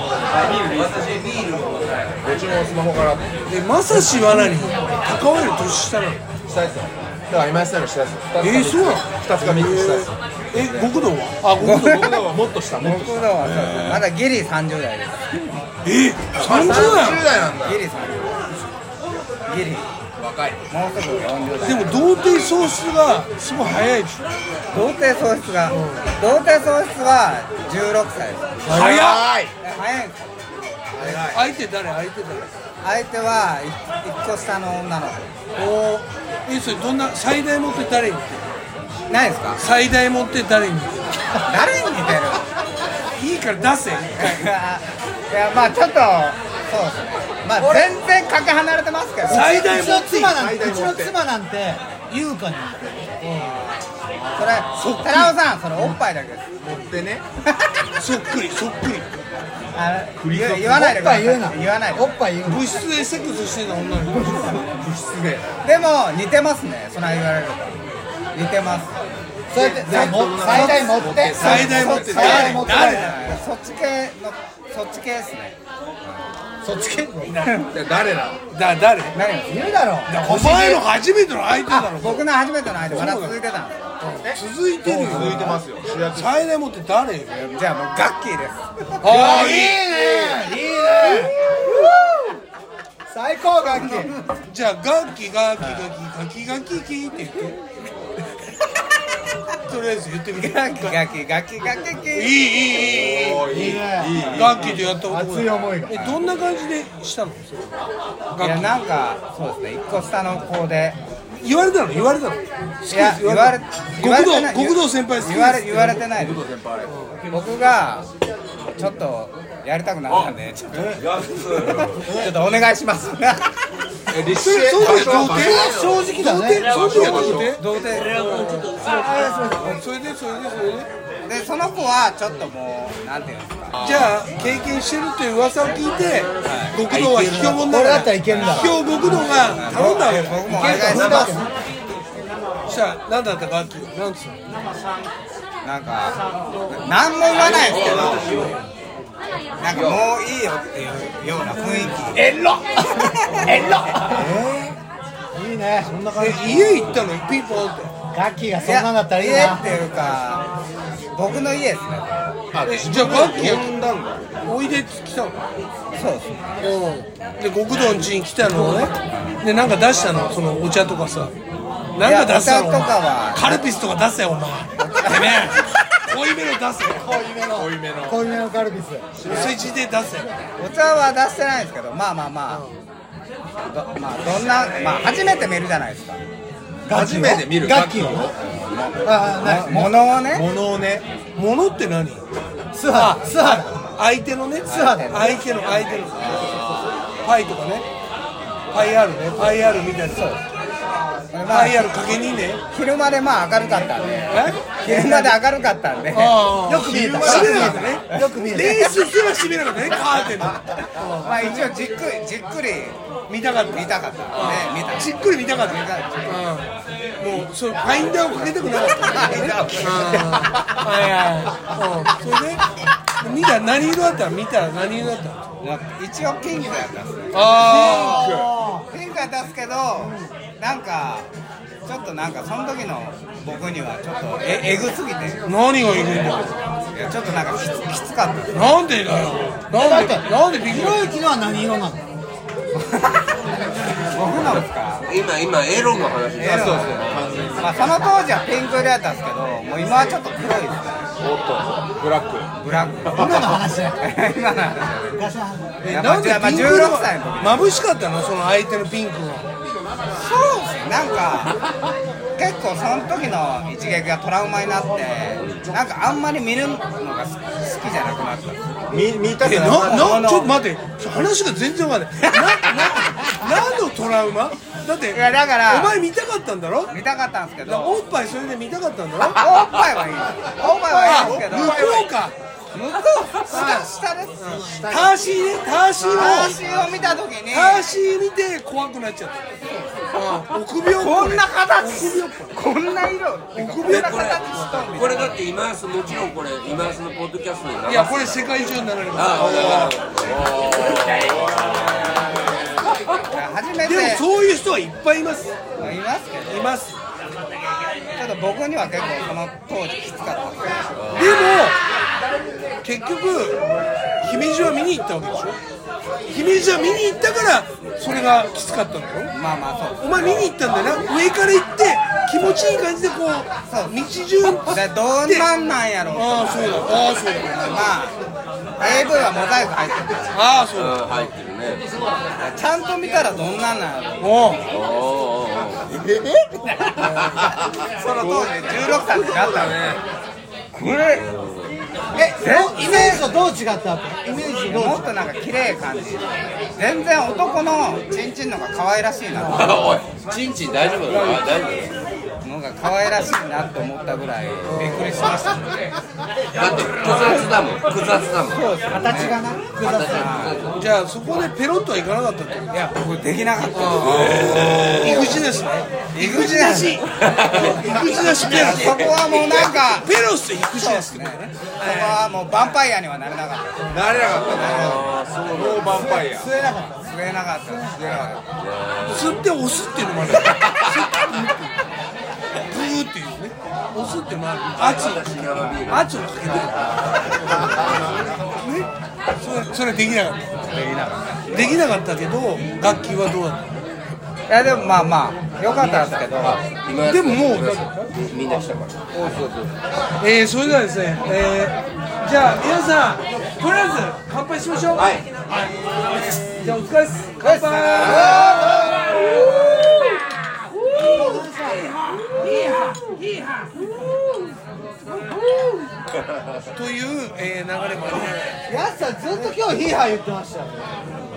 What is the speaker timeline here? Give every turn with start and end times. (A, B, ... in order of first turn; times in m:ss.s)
0:00.3-0:01.3 A
0:00.9-0:01.7 B
0:02.2-0:03.4 A
0:03.5-0:06.2 C
0:04.2-0:04.7 D
0:06.4-0:10.9 A
0:08.4-0:12.2 C
0:11.6-0:12.3 E
0:11.7-0:13.3 A
0:12.8-0:15.5 E
0:13.4-0:14.0 C
0:15.8-0:17.3 C
0:16.4-0:17.8 A
0:17.6-0:18.6 E
0:19.5-0:19.9 E
0:20.2-0:20.6 A
0:20.7-0:22.1 E
0:21.6-0:24.3 C
0:24.7-0:28.9 E
0:25.7-0:26.0 C
0:28.6-0:29.4 C
0:28.7-0:29.5 A
0:29.6-0:30.4 E
0:31.0-0:31.5 A
0:31.0-0:32.5 C
0:32.8-0:35.3 E
0:35.6-0:38.5 C
0:39.1-0:39.6 E
0:39.6-0:41.1 C
0:41.4-0:42.4 E
0:43.2-0:44.5 C
0:44.2-0:49.7 E
0:47.4-0:47.9 D
0:49.2-0:50.4 C
0:49.3-0:53.1 D
0:49.9-0:51.2 A
0:53.2-0:53.6 C
0:53.3-0:56.5 E
0:54.7-0:55.3 C
0:56.6-0:57.2 A
0:58.0-0:59.1 C
0:59.8-1:02.2 E
1:00.2-1:00.8 A
1:00.7-1:02.8 D
1:02.5-1:04.6 C
1:04.7-1:05.5 A
1:05.6-1:07.8 E
1:08.3-1:08.9 E
1:09.5-1:13.1 D
1:09.5-1:12.6 A
1:11.4-1:13.4 C
1:11.4-1:15.6 E
1:16.6-1:17.4 D
1:17.2-1:17.6 C
1:17.4-1:17.7 E
1:17.7-1:18.4 A
1:18.5-1:19.2 C
1:19.1-1:19.6 E
1:19.5-1:20.8 D
1:20.1-1:22.2 C
1:21.7-1:24.0 E
1:22.8-1:23.4 C
1:24.0-1:27.3 C
1:24.8-1:25.6 D
1:25.0-1:26.4 A
1:27.3-1:29.4 E
1:29.0-1:29.9 C
1:29.1-1:31.3 D
1:31.6-1:32.2 E
1:33.1-1:34.2 D
1:33.8-1:34.1 E
1:34.5-1:37.6 C
1:39.6-1:41.0 C
1:40.4-1:42.4 E
1:42.1-1:43.6 C
1:42.8-1:44.9 A
1:43.5-1:44.3 D
1:44.2-1:44.5 E
1:44.3-1:47.8 C
1:44.9-1:46.0 D
1:45.9-1:46.2 E
1:48.3-1:48.7 C
1:48.4-1:51.0 E
1:51.4-1:56.0 C
1:52.9-1:56.5 E
1:56.3-1:56.9 A
1:56.9-1:57.2 C
1:57.3-1:58.1 E
1:58.8-2:03.6 E
2:00.1-2:01.0 A
2:01.1-2:01.7 B
2:02.0-2:02.3 A
2:04.1-2:06.0 A
2:04.3-2:10.9 C
2:05.2-2:07.6 D
2:06.7-2:07.6 A
2:08.8-2:09.8 D
2:11.3-2:13.8 E
2:13.7-2:14.1 A
2:13.8-2:21.4 C
2:16.4-2:16.8 E
2:16.9-2:17.6 A
2:17.6-2:18.8 D
2:18.4-2:21.4 E
2:20.5-2:21.5 D
2:22.7-2:24.4 C
2:25.6-2:28.3 E
2:27.4-2:28.5 A
2:27.6-2:28.5 B
2:29.6-2:33.9 E
2:29.6-2:30.0 B
2:32.9-2:34.3 D
2:34.0-2:34.8 A
2:35.4-2:36.0 D
2:35.8-2:37.0 A
2:36.1-2:37.9 C
2:38.1-2:39.8 D
2:38.6-2:40.5 E
2:41.1-2:42.3 E
2:42.5-2:44.4 A
2:42.6-2:43.8 C
2:44.4-2:45.4 C
2:45.9-2:46.5 E
2:46.6-2:51.3 C
2:52.0-2:57.1 C
2:52.0-2:53.6 E
2:54.8-2:55.4 E
2:57.0-2:59.2 D
2:57.4-2:58.3 A
2:59.2-2:59.6 A
2:59.2-3:00.3 C
2:59.3-2:59.6 E
3:00.6-3:02.6 E
3:03.6-3:06.2 E
3:06.8-3:08.3 D
3:06.9-3:08.4 A
3:08.5-3:10.5 E
3:09.0-3:10.0 D
3:10.3-3:11.1 A
3:11.4-3:12.2 C
3:12.7-3:13.8 D
3:12.9-3:16.4 C
3:14.7-3:15.4 E
3:14.7-3:15.2 D
3:16.2-3:17.0 A
3:17.2-3:17.9 C
3:18.7-3:20.3 C
3:20.1-3:20.4 E
3:21.3-3:22.1 E
3:21.5-3:22.6 C
3:22.7-3:26.4 E
3:24.3-3:25.4 C
3:26.1-3:31.7 C
3:26.6-3:29.0 D
3:26.7-3:27.9 A
3:27.2-3:29.1 E
3:31.2-3:33.0 E
3:33.3-3:42.6 C
3:33.7-3:36.4 E
3:39.2-3:40.0 E
3:39.2-3:40.8 A
3:43.2-3:45.4 C
3:45.6-3:48.3 E
3:47.3-3:48.4 C
3:47.6-3:48.9 D
3:48.2-3:48.6 A
3:48.9-3:51.3 E
3:50.0-3:50.3 D
3:51.9-3:55.5 E
3:55.5-3:56.5 C
3:56.2-3:56.4 E
3:56.9-3:58.6 E
3:58.5-4:01.1 C
3:59.7-4:02.1 D
4:02.7-4:03.3 E
4:04.1-4:05.1 E
4:05.1-4:07.5 B
4:06.4-4:07.0 E
4:06.4-4:07.8 A
4:07.6-4:11.1 E
4:11.2-4:12.5 A
4:12.6-4:15.2 E
4:13.1-4:14.0 D
4:13.2-4:13.6 A
4:15.1-4:15.7 D
4:15.8-4:19.5 C
4:15.8-4:17.7 E
4:20.2-4:21.6 E
4:22.4-4:28.6 E
4:28.9-4:30.1 A
4:29.4-4:36.9 C
4:29.8-4:30.5 E
4:32.3-4:33.3 E
4:35.1-4:36.0 E
4:36.9-4:38.0 E
4:37.6-4:39.4 C
4:39.3-4:41.9 E
4:40.8-4:42.2 A
4:40.9-4:42.4 C
4:42.7-4:44.6 E
4:43.5-4:46.9 C
4:44.7-4:45.2 A
4:46.0-4:47.9 E
4:46.2-4:46.6 A
4:47.5-4:49.4 C
4:49.6-4:50.4 E
4:50.1-4:52.5 C
4:51.0-4:55.4 E
4:53.5-4:54.7 C
4:53.8-4:58.5 B
4:57.9-4:59.9 C
4:59.1-5:01.6 B
4:59.4-5:00.5 A
5:01.3-5:01.9 A
5:03.3-5:04.2 E
5:03.8-5:05.6 C
5:05.8-5:06.7 E
5:06.5-5:07.0 C
5:08.2-5:11.0 E
5:11.0-5:11.7 B
5:11.1-5:11.8 C
5:12.8-5:13.6 C
5:14.2-5:15.6 C
5:16.3-5:19.3 C
5:19.3-5:20.5 E
5:20.0-5:25.5 C
5:23.7-5:24.0 E
5:24.6-5:28.2 E
5:26.1-5:27.6 C
5:28.8-5:30.4 E
5:30.3-5:31.0 C
5:30.7-5:31.9 B
5:32.4-5:34.6 E
5:34.2-5:34.6 C
5:34.7-5:37.3 B
5:38.0-5:40.0 A
5:38.1-5:39.9 E
5:40.8-5:41.2 E
5:40.8-5:41.8 B
5:42.2-5:45.2 D
5:42.2-5:43.3 E
5:44.5-5:50.0 E
5:49.4-5:51.9 B
5:52.4-5:55.9 E
5:54.7-5:55.4 C
5:56.6-5:58.6 B
5:56.9-5:57.5 E
5:58.5-5:59.5 E
5:58.9-6:00.3 D
5:59.8-6:00.8 B
6:00.0-6:00.6 E
6:00.7-6:02.7 C
6:02.7-6:05.4 E
6:03.7-6:12.3 C
6:04.0-6:05.2 A
6:04.2-6:05.3 B
6:06.1-6:07.1 E
6:07.2-6:09.4 B
6:07.7-6:15.1 E
6:13.9-6:16.6 A
6:14.3-6:16.0 B
6:15.9-6:18.0 D
6:17.0-6:18.0 E
6:17.8-6:18.5 A
6:18.6-6:19.4 B
6:19.0-6:21.8 C
6:20.2-6:21.3 B
6:22.6-6:25.3 C
6:24.8-6:26.0 B
6:25.9-6:26.8 C
6:27.5-6:28.4 A
6:28.6-6:28.9 C
6:29.4-6:30.5 C
6:30.6-6:31.8 E
6:31.5-6:33.6 C
6:34.5-6:36.6 E
6:35.7-6:39.4 B
6:37.0-6:38.1 C
6:39.1-6:39.7 A
6:40.2-6:45.2 C
6:46.1-6:49.4 C
6:47.4-6:50.2 E
6:48.0-6:49.0 D
6:50.9-6:53.3 E
6:51.0-6:51.3 C
6:51.1-6:51.9 D
6:52.2-6:53.6 C
6:56.7-6:58.6 C
6:58.7-7:01.0 D